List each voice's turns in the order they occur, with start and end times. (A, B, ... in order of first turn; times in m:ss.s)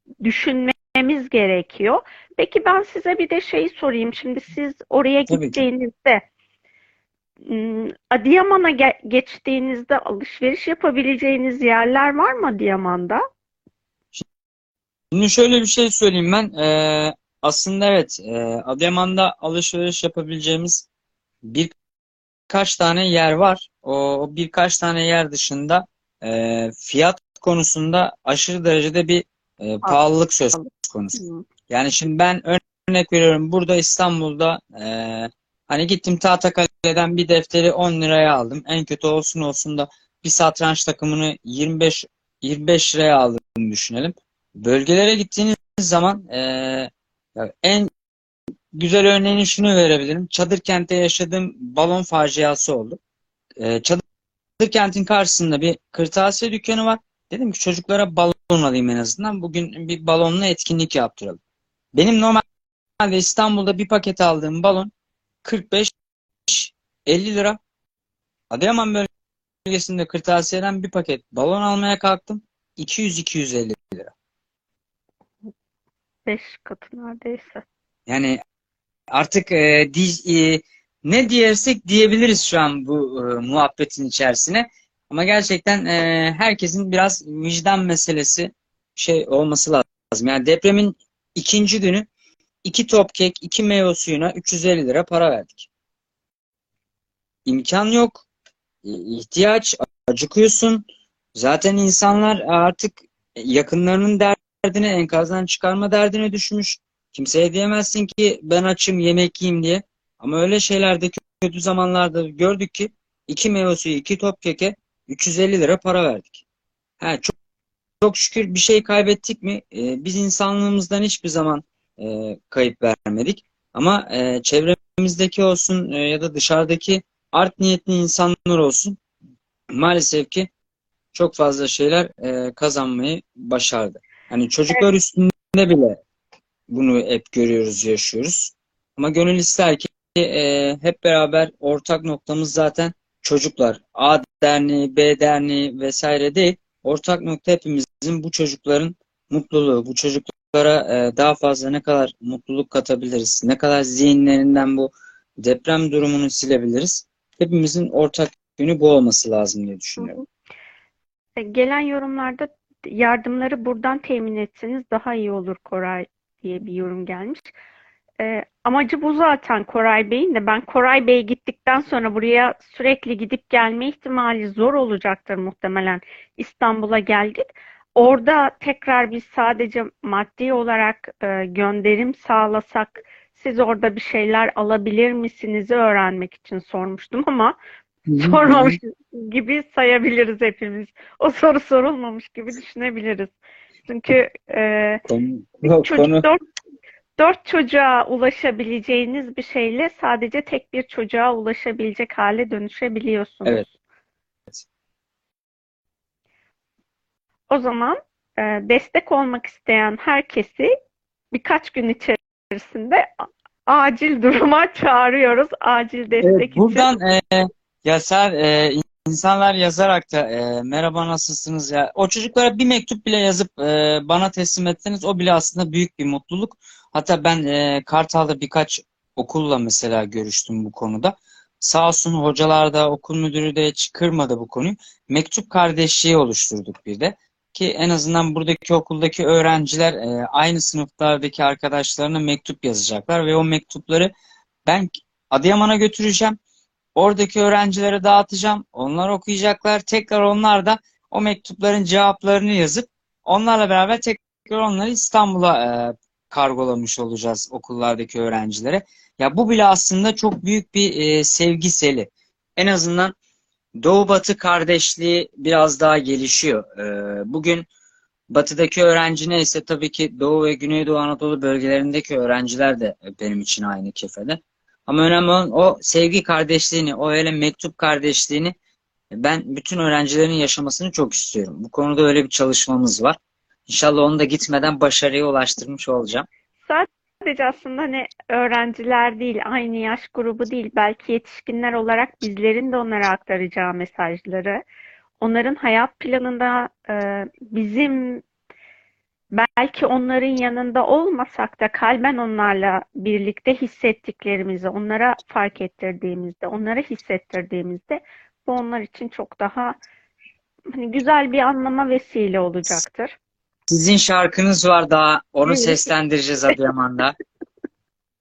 0:00.2-0:06.2 A
0:05.3-0:05.6 B
0:07.4-0:13.2 A
0:15.1-0:20.9 B
0:21.4-0:21.7 B
0:22.5-0:47.9 B
0:30.5-0:31.4 A
0:48.7-0:53.0 B
0:53.6-0:54.0 B
0:54.6-1:01.4 B
1:01.9-1:02.4 B
1:03.0-1:04.9 B
1:05.4-1:05.9 B
1:06.5-1:07.6 B
1:08.5-1:09.1 B
1:09.6-1:14.1 B
1:16.3-1:17.6 A
1:18.1-1:18.4 B
1:19.1-1:32.1 B
1:32.6-1:35.7 B
1:37.4-1:38.2 B
1:38.8-1:56.4 B
1:57.0-1:57.3 B
1:58.0-2:09.0 B
2:09.7-2:10.5 B
2:11.1-2:16.0 B
2:16.7-2:40.2 B
2:40.0-2:40.2 A
2:41.4-2:47.5 A
2:48.2-2:57.4 A
2:58.0-3:07.5 A
3:08.1-3:08.8 B
3:08.2-3:13.3 A
3:13.9-3:15.0 A
3:15.1-3:16.2 B
3:15.6-3:16.4 A
3:17.2-3:23.7 A
3:27.5-3:30.7 A
3:31.3-3:33.1 A
3:33.7-3:36.9 A
3:36.2-4:04.1 B
4:04.6-4:06.4 B
4:07.0-4:23.1 B
4:23.8-4:27.7 B
4:28.3-4:38.5 B
4:39.1-4:46.3 B
4:46.7-4:54.6 A
4:55.2-4:58.2 A
4:59.3-5:09.8 A
5:10.7-5:13.1 A
5:13.7-5:17.1 B
5:15.4-5:15.8 A